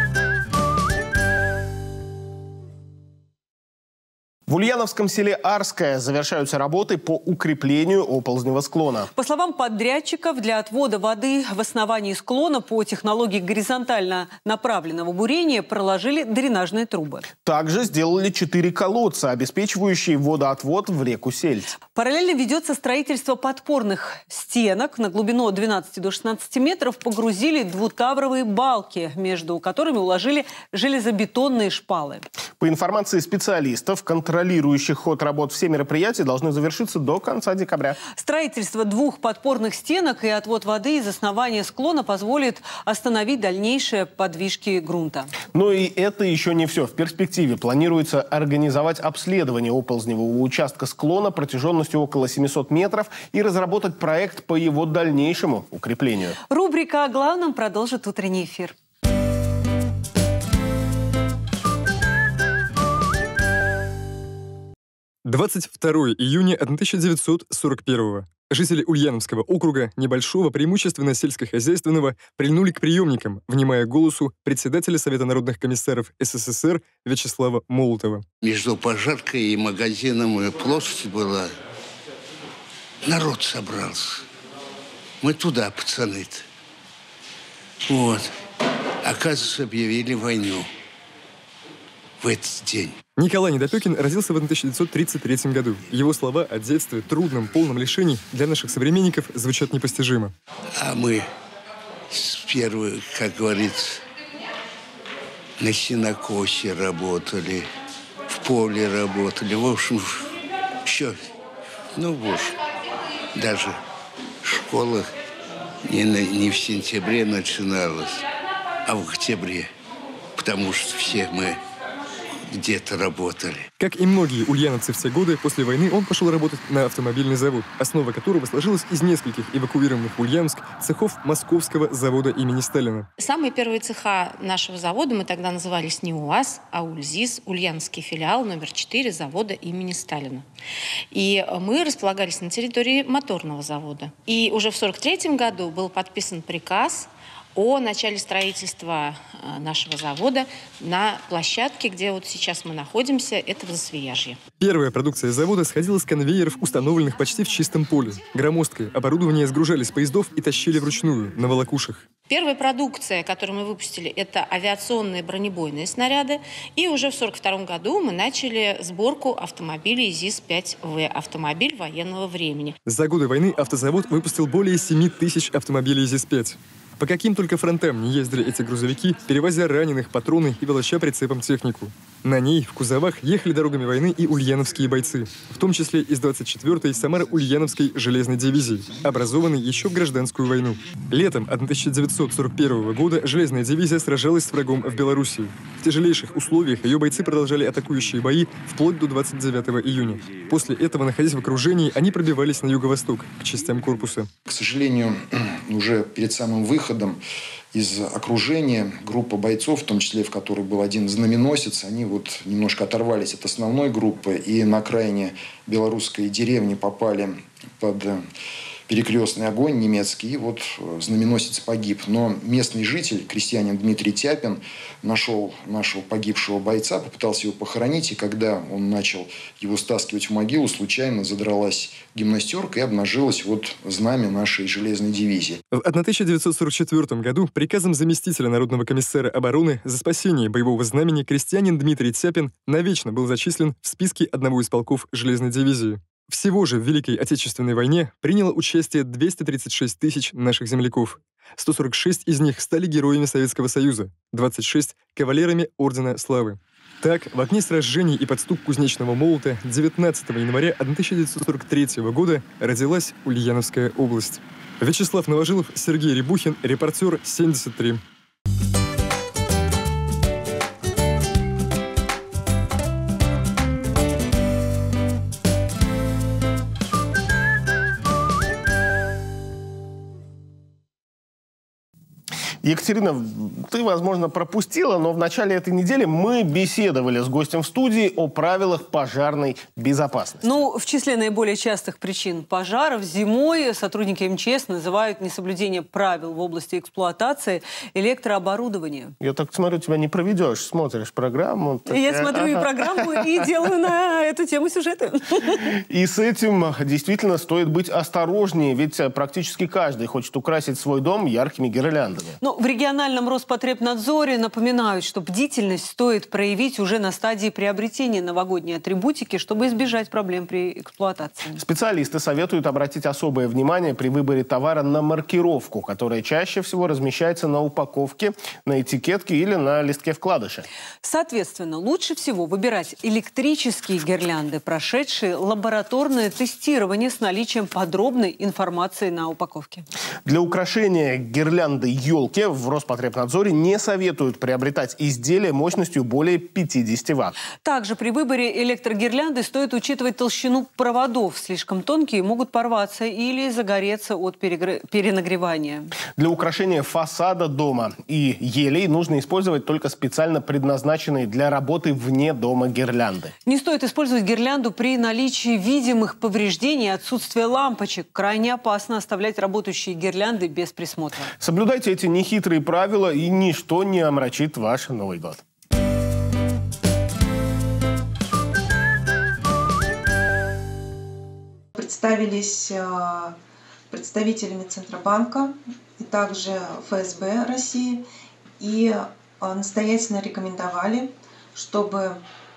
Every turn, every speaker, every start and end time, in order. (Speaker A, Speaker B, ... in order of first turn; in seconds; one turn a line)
Speaker A: 4.5-9.1
Speaker B: 9.1-17.2
Speaker A: 17.4-21.7
Speaker B: 21.9-32.2
Speaker A: 32.6-38.0
Speaker B: 38.1-45.3
Speaker A: 45.5-56.4
Speaker B: 56.5-58.7
Speaker C: 65.2-78.2
Speaker D: 78.4-81.5
Speaker D: 83.0-84.2
Speaker D: 85.2-86.4
Speaker D: 87.8-88.3
Speaker D: 89.0-90.7
Speaker D: 92.2-93.0
Speaker C: 93.2-100.3
Speaker D: 100.8-101.3
Speaker D: 102.1-104.0
Speaker D: 105.6-107.7
Speaker D: 108.3-110.3
Speaker D: 110.8-111.2
Speaker D: 111.9-112.5
Speaker D: 113.3-113.8
Speaker D: 114.4-115.1
Speaker D: 115.9-118.2
Speaker D: 118.8-119.7
Speaker D: 120.3-121.6
Speaker D: 122.5-123.7
Speaker C: 123.8-133.1
Speaker E: 133.2-140.4
Speaker E: 141.1-154.4
Speaker C: 154.6-162.0
Speaker E: 162.3-172.8
Speaker C: 172.8-204.3
Speaker F: 204.5-207.2
Speaker F: 207.7-218.2
Speaker F: 218.9-235.6
Speaker C: 235.7-268.0
Speaker A: 282.6-290.5
Speaker B: 290.4-299.1
Speaker A: 299.2-303.0
Speaker B: 301.9-305.6
Speaker A: 305.9-312.4
Speaker B: 312.4-321.6
Speaker A: 321.6-330.6
Speaker B: 331.0-339.9
Speaker A: 340.2-347.3
Speaker B: 347.6-355.9
Speaker A: 356.2-363.3
Speaker B: 363.4-371.3
Speaker A: 371.4-375.4
Speaker G: 381.8-383.4
Speaker G: 383.9-388.0
Speaker G: 388.6-392.2